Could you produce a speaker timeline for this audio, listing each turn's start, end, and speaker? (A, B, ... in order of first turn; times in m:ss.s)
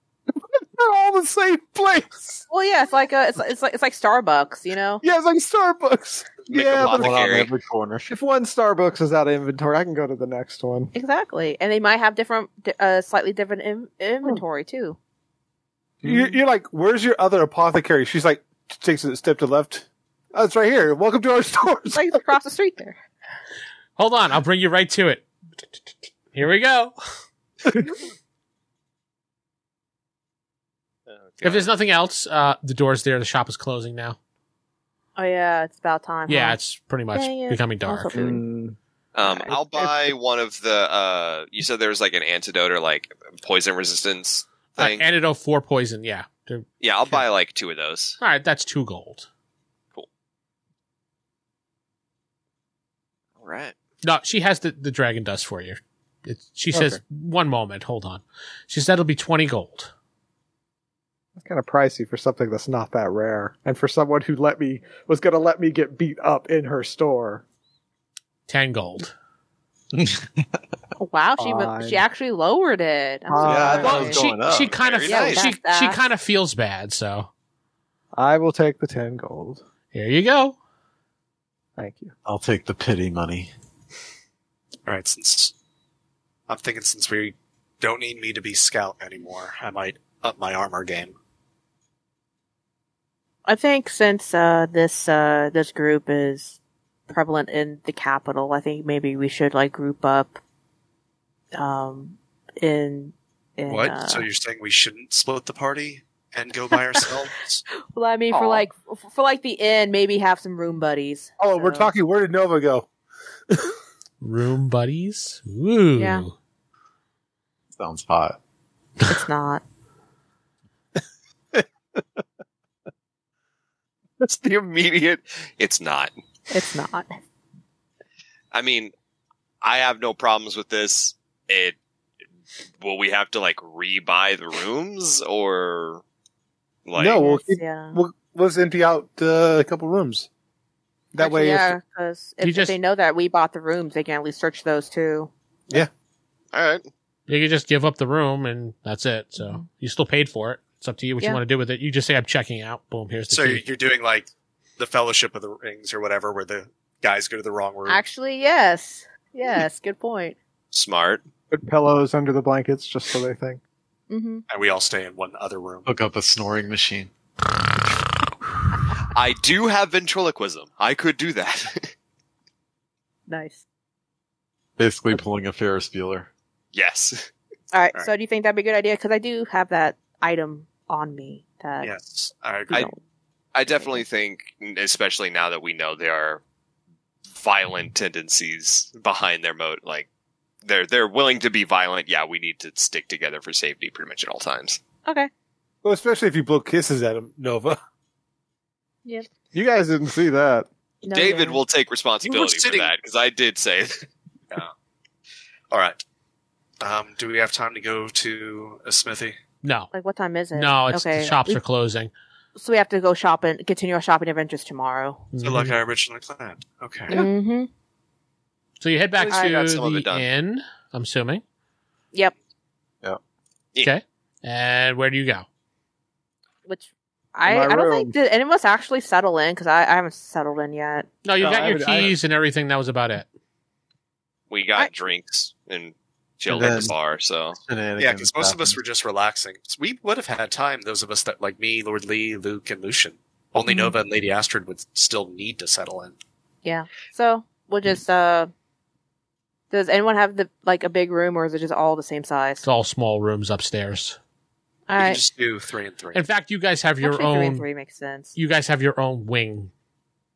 0:00.8-0:02.4 A
0:02.5-0:05.0 B
0:05.0-0:07.0 A
0:06.5-0:07.5 C
0:06.8-0:08.1 D
0:08.1-0:10.9 E
0:10.9-0:15.0 B
0:16.0-0:16.4 E
0:16.0-0:22.2 A
0:21.9-0:23.0 B
0:24.0-0:25.3 F
0:26.3-0:27.0 F
0:31.1-0:31.7 C
0:31.4-0:34.2 F
0:35.2-0:36.6 B
0:36.3-0:38.4 F
0:37.1-0:38.4 B
0:38.2-0:38.8 E
0:39.2-0:45.0 C
0:39.2-0:39.5 B
0:39.5-0:39.9 E
0:44.8-0:47.2 F
0:46.8-0:48.2 C
0:48.2-0:49.3 F
0:53.4-0:53.8 C
0:54.0-0:59.9 F
0:56.7-0:57.0 E
1:01.4-1:07.4 E
1:08.5-1:09.1 F
1:11.0-1:14.2 B
1:11.4-1:12.0 E
1:13.3-1:14.2 E
1:13.4-1:14.8 D
1:13.5-1:13.9 A
1:13.8-1:17.3 F
1:14.8-1:15.5 C
1:15.1-1:16.0 B
1:18.2-1:19.6 E
1:19.9-1:20.6 F
1:21.8-1:22.2 E
1:22.2-1:23.5 D
1:24.9-1:25.5 G
1:26.5-1:31.2 G
1:33.5-1:36.6 B
1:37.1-1:40.4 B
1:41.6-1:44.3 B
1:43.7-1:47.6 G
1:47.9-1:51.9 B
1:51.4-1:52.9 A
1:54.2-1:56.3 F
1:56.0-1:56.3 B
1:57.8-1:58.4 D
1:59.1-1:59.6 B
2:04.2-2:06.1 C
2:06.5-2:07.1 B
2:08.5-2:08.9 C
2:09.6-2:11.8 C
2:12.8-2:16.0 C
2:16.9-2:17.2 C
2:17.0-2:20.3 A
2:17.2-2:18.0 B
2:21.1-2:21.8 A
2:21.2-2:25.3 B
2:22.4-2:22.8 F
2:26.5-2:26.9 C
2:27.3-2:33.6 F
2:29.4-2:29.6 B
2:33.3-2:38.0 G
2:37.9-2:40.4 B
2:40.7-2:41.2 C
2:41.5-2:43.6 E
2:44.1-2:44.4 B
2:44.5-2:45.9 G
2:45.9-2:47.1 D
2:49.1-2:51.9 C
2:53.3-2:53.6 B
2:54.8-2:56.3 D
2:56.7-2:57.3 C
2:57.7-3:01.9 B
3:01.8-3:02.9 G
3:02.7-3:03.0 B
3:03.6-3:06.4 C
3:03.7-3:04.0 B
3:07.3-3:10.1 C
3:10.6-3:14.8 C
3:15.8-3:17.8 A
3:19.5-3:20.7 E
3:21.0-3:21.6 B
3:21.1-3:24.1 C
3:22.2-3:22.9 G
3:25.7-3:26.0 G
3:26.8-3:29.4 G
3:29.6-3:29.9 F
3:29.9-3:31.6 B
3:30.5-3:32.1 F
3:32.6-3:35.3 B
3:35.3-3:35.8 F
3:35.4-3:37.2 G
3:37.1-3:37.7 B
3:38.8-3:41.4 F
3:39.2-3:40.3 C
3:39.3-3:39.6 B
3:43.8-3:45.5 F
3:46.7-3:51.1 B
3:47.5-3:48.1 E
3:51.2-3:53.3 F
3:51.4-3:52.2 E
3:54.5-3:57.6 C
3:56.5-3:57.0 D
3:57.6-3:58.8 D
3:58.0-4:06.2 G
4:03.6-4:03.9 B
4:06.6-4:08.5 B
4:09.7-4:12.6 B
4:12.6-4:14.2 F
4:14.9-4:15.2 B
4:15.0-4:16.2 G
4:16.1-4:17.7 F
4:17.0-4:18.4 B
4:18.4-4:19.7 F